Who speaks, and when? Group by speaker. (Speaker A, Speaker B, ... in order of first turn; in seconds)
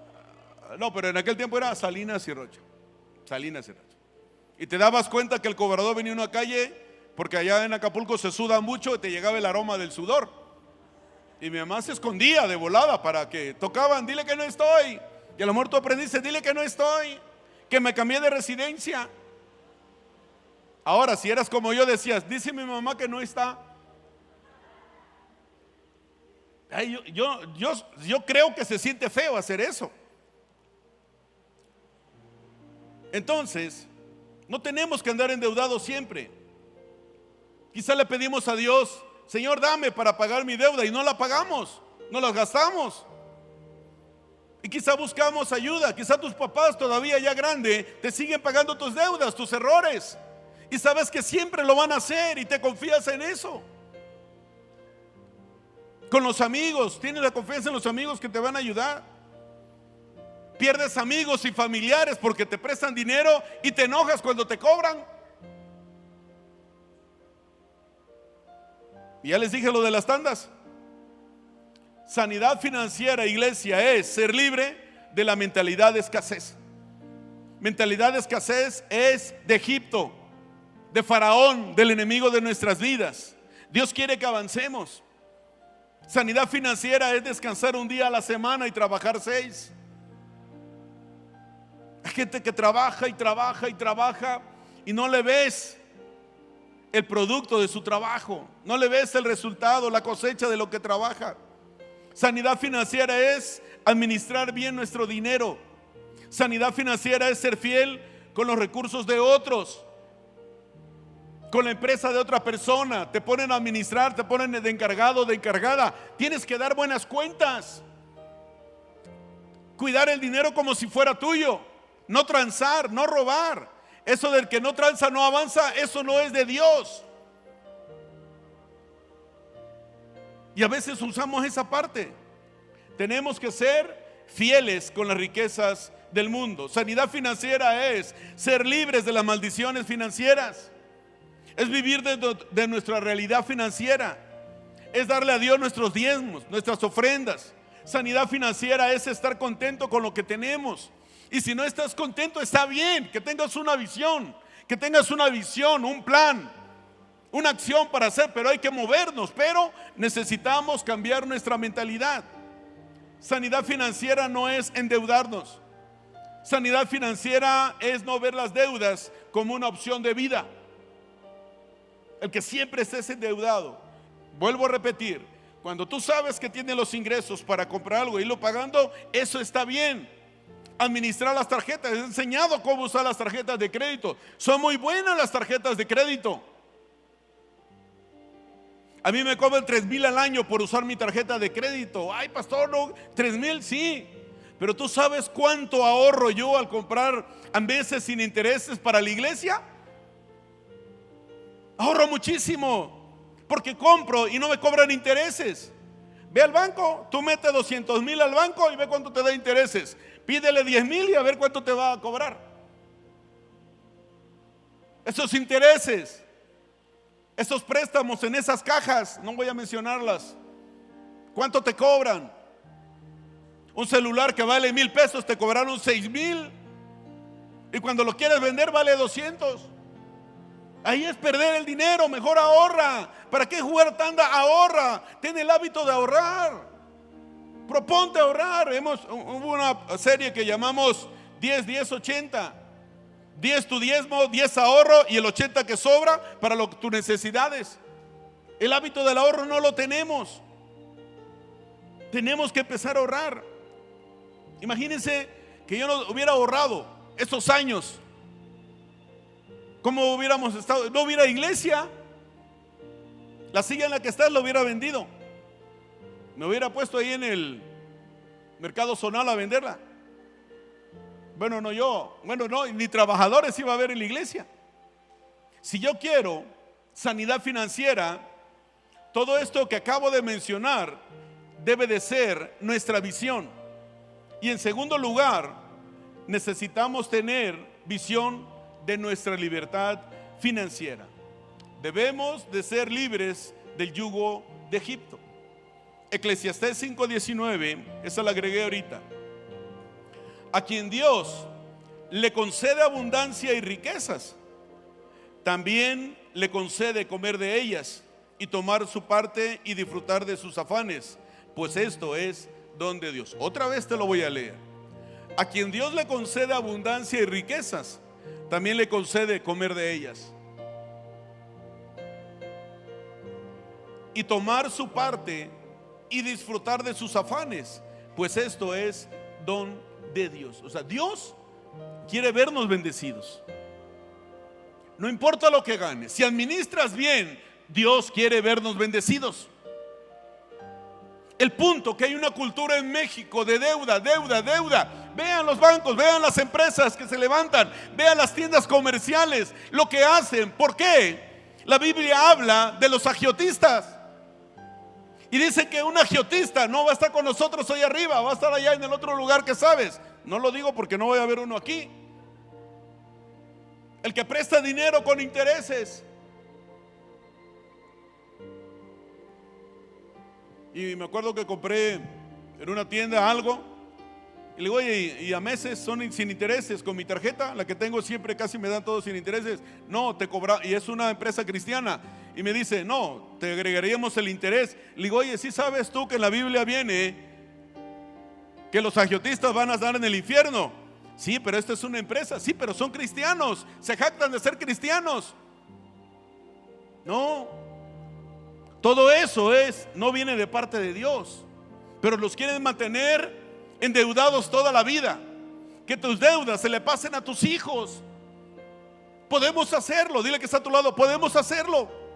Speaker A: 0.7-2.6, 3.3-3.9, 4.6-10.3, 11.4-19.1, 20.9-23.6, 26.7-29.9, 33.1-33.9, 34.5-36.3, 37.7-43.1, 44.6-50.2, 50.7-53.6, 56.1-59.0, 60.6-65.0, 69.2-70.5, 72.1-76.6, 77.6-80.2, 80.9-85.0, 86.1-89.7, 92.0-95.8, 96.9-101.4, 102.2-105.6, 106.3-109.9, 111.5-117.8, 119.8-127.1, 130.6-132.2, 132.9-140.7, 141.6-144.2, 144.9-156.5, 157.3-162.3, 163.2-165.6, 166.4-170.5, 172.2-180.1, 180.8-186.4, 189.0-199.6, 201.8-205.7, 206.3-212.4, 215.1-216.2, 217.4-220.4, 221.3-222.3, 223.7-226.5, 227.7-229.7, 230.8-236.7, 237.7-242.6, 243.3-247.8, 248.6-250.4, 252.1-253.4, 254.6-258.0, 259.8-261.9, 263.5-265.1, 266.4-267.7, 268.6-269.8, 271.4-274.5, 275.6-278.2, 279.1-281.0, 281.6-283.5, 284.4-285.6, 286.3-291.1, 291.8-295.2, 296.1-299.0, 300.5-301.5, 302.1-304.4, 305.4-314.6, 315.4-320.4, 324.1-325.5, 326.1-331.4, 332.1-333.4, 335.0-339.5, 341.4-354.0, 355.3-361.9, 364.0-366.1, 370.7-372.1, 372.6-373.7, 374.6-387.2, 388.7-395.4, 397.1-397.6, 398.8-401.5, 402.0-405.2, 405.9-408.0, 409.3-411.9